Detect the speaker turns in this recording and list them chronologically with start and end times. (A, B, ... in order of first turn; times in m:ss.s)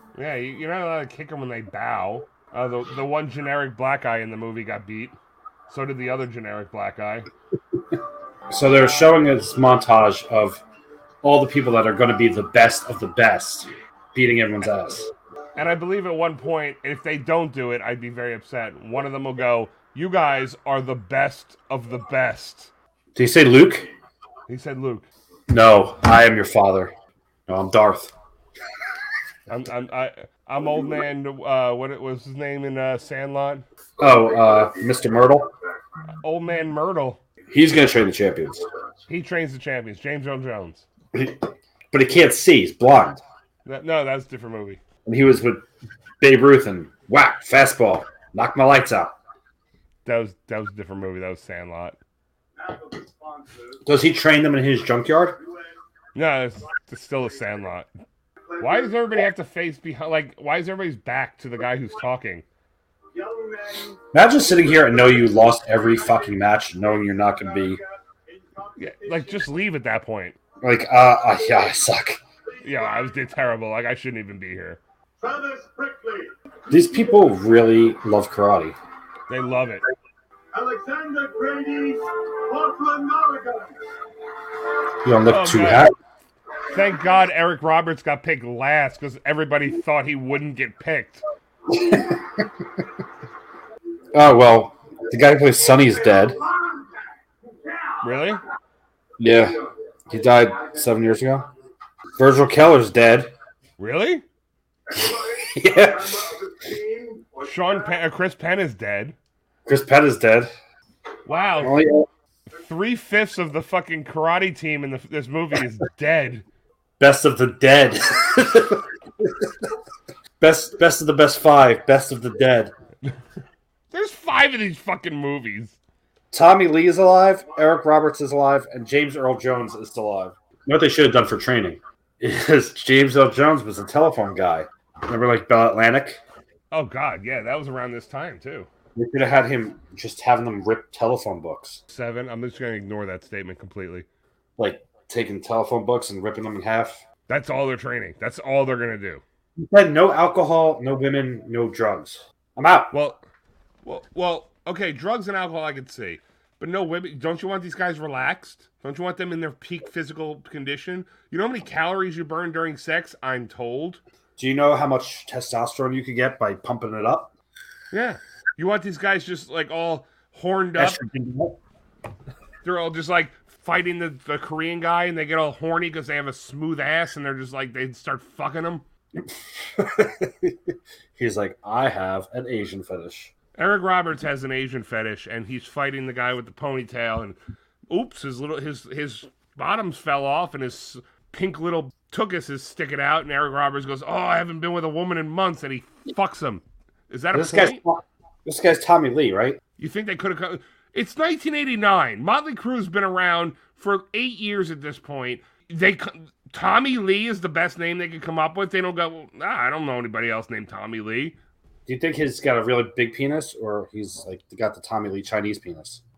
0:00.1-0:05.2 A
0:05.7-0:07.3 A
0:08.5-0:10.6 B
0:11.2-0:15.1 B
0:15.6-0:22.7 A
0:23.1-0:23.9 B
0:24.5-0:25.1 A
0:25.5-0:26.9 B
0:27.5-0:28.1 B
0:29.5-0:33.6 A
0:34.0-0:35.5 B
0:36.2-0:37.2 A
0:37.5-0:38.6 B
0:39.1-0:40.9 A
0:41.1-0:43.2 B
0:43.6-0:44.8 A
0:45.0-0:45.6 B
0:46.2-0:49.2 B
0:50.0-0:52.0 A
0:52.6-0:53.8 C
0:53.8-0:55.4 B
0:55.4-0:55.7 C
0:56.1-0:57.9 A
0:58.5-0:59.2 C
0:58.6-1:02.4 A
1:03.1-1:06.3 C
1:04.1-1:07.8 B
1:07.2-1:09.5 C
1:08.8-1:10.4 A
1:10.6-1:12.2 B
1:12.6-1:13.1 C
1:12.6-1:14.8 A
1:15.2-1:16.3 C
1:16.7-1:18.8 B
1:19.3-1:19.8 A
1:20.5-1:23.8 C
1:25.0-1:25.9 B
1:25.3-1:25.9 A
1:26.7-1:31.2 A
1:31.7-1:32.2 B
1:34.1-1:36.4 B
1:36.5-1:36.9 C
1:37.4-1:38.0 C
1:38.0-1:38.4 A
1:39.2-1:39.6 B
1:40.1-1:41.5 B
1:42.2-1:43.3 B
1:43.8-1:44.2 A
1:44.9-1:47.9 C
1:45.0-1:46.3 B
1:47.4-1:49.2 A
1:49.6-1:50.5 B
1:51.2-1:51.8 A
1:51.6-1:52.0 B
1:52.5-1:56.4 A
1:57.0-1:59.5 B
2:00.4-2:02.7 B
2:03.9-2:05.8 A
2:06.3-2:16.2 B
2:16.7-2:18.7 A
2:18.9-2:21.8 B
2:21.9-2:24.0 A
2:24.6-2:27.0 B
2:27.3-2:29.2 A
2:29.6-2:32.9 B
2:32.9-2:33.2 A
2:33.8-2:44.0 A
2:44.4-2:47.3 B
2:47.9-2:51.0 A
2:50.8-2:51.6 B
2:52.6-2:58.8 A
2:59.2-3:03.3 B
3:03.6-3:07.4 A
3:07.9-3:17.8 A
3:17.3-3:19.6 B
3:19.8-3:31.4 A
3:31.8-3:36.0 B